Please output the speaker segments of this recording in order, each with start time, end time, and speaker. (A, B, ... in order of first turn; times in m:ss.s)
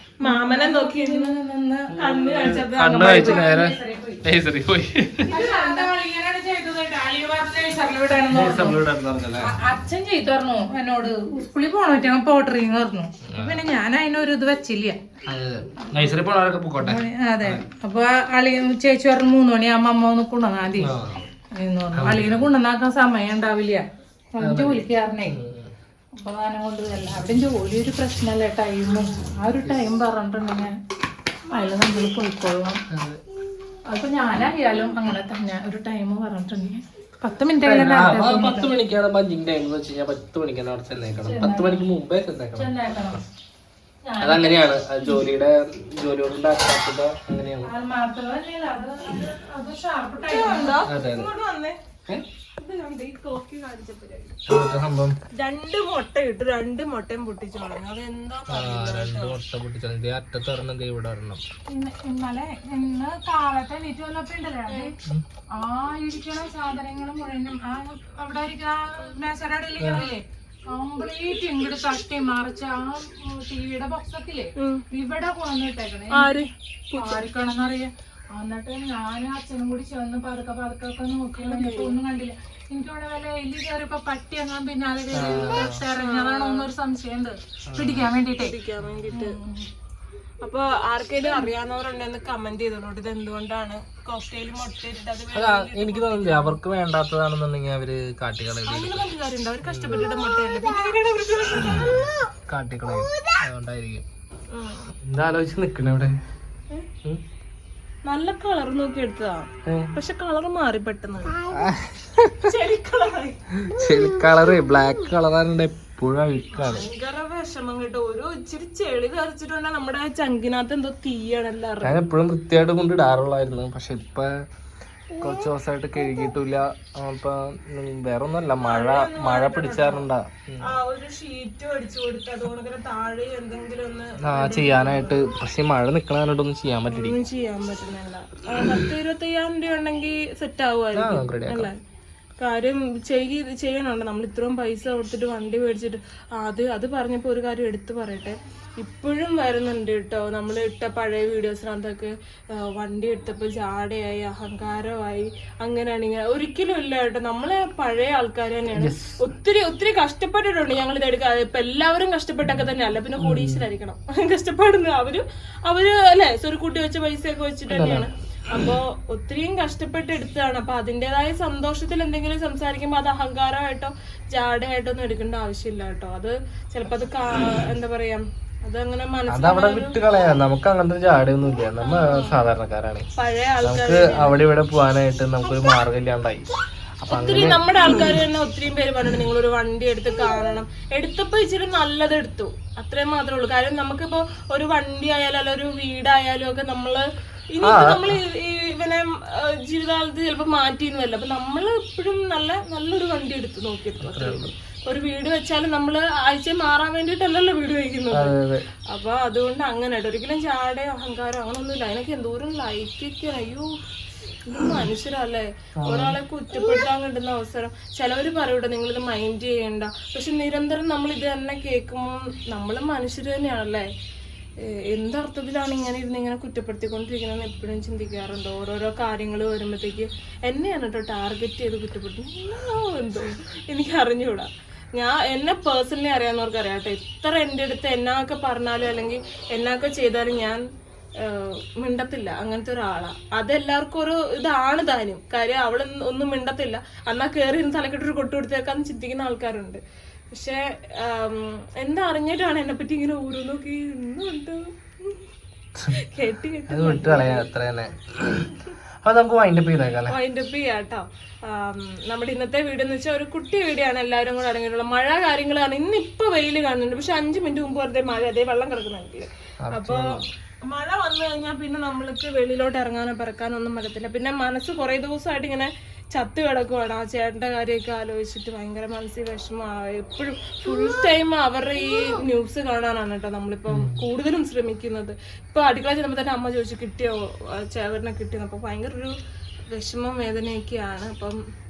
0:00.2-0:01.3 A
0:00.2-0:01.9 B
0:01.9-0:05.3 C
0:02.0-0:03.5 A
0:03.0-0:04.2 B
0:05.3-0:08.8 B
0:05.3-0:05.9 A
0:08.3-0:09.5 C
0:09.4-0:15.0 B
0:13.2-0:13.6 C
0:15.3-0:17.6 C
0:16.8-0:20.9 B
0:20.8-0:21.3 C
0:21.5-0:23.8 B
0:22.0-0:22.5 C
0:24.3-0:25.4 B
0:24.4-0:25.7 C
0:26.2-0:30.7 B
0:29.6-0:30.0 C
0:31.5-0:32.8 B
0:32.9-0:33.2 C
0:33.9-0:38.7 B
0:37.6-0:43.2 C
0:41.2-0:41.9 B
0:42.6-0:43.2 B
0:44.0-0:45.2 B
0:44.2-0:47.7 C
0:47.6-0:50.9 B
0:50.3-0:51.8 A
0:50.8-0:51.3 C
0:52.6-0:54.4 A
0:54.5-0:55.2 C
0:55.4-0:59.4 A
0:58.5-1:01.4 C
1:01.7-1:04.9 B
1:05.6-1:16.4 B
1:09.8-1:10.1 C
1:14.6-1:14.8 A
1:16.1-1:17.2 A
1:16.9-1:28.5 B
1:21.4-1:22.0 A
1:25.1-1:25.8 C
1:25.2-1:26.7 A
1:27.7-1:28.1 C
1:28.3-1:29.4 A
1:28.8-1:29.2 C
1:29.1-1:29.6 B
1:30.4-1:36.6 A
1:35.3-1:39.1 C
1:38.6-1:42.1 A
1:39.6-1:40.1 C
1:41.6-1:44.0 C
1:44.5-1:44.9 A
1:45.0-1:46.1 C
1:48.0-1:51.5 A
1:49.6-1:49.9 C
1:51.5-1:52.5 C
1:52.4-1:53.4 A
1:53.6-1:56.8 C
1:56.6-2:02.0 A
2:01.8-2:04.3 C
2:05.2-2:10.7 C
2:08.6-2:10.1 A
2:10.6-2:15.2 A
2:14.2-2:17.2 C
2:16.9-2:21.7 A
2:20.9-2:21.7 C
2:22.4-3:00.0 A
2:38.7-2:39.2 C
2:43.2-2:43.6 C
2:47.7-2:48.6 C
2:59.3-3:03.0 C
3:01.8-3:02.4 A
3:03.2-3:04.4 A
3:03.6-3:06.4 C
3:07.0-3:07.6 C
3:07.1-3:28.3 A
3:17.6-3:18.2 C
3:24.0-3:24.5 C
3:28.1-3:28.6 C
3:28.9-3:33.7 A
3:34.4-3:43.9 A
3:35.8-3:36.2 C
3:44.6-4:00.6 A
4:01.2-4:09.8 A
4:10.3-4:15.2 A
4:16.0-4:17.4 A
4:16.7-4:20.2 C
4:20.1-4:49.1 A
4:29.6-4:30.2 C
4:43.7-4:44.0 C
4:49.7-4:51.4 A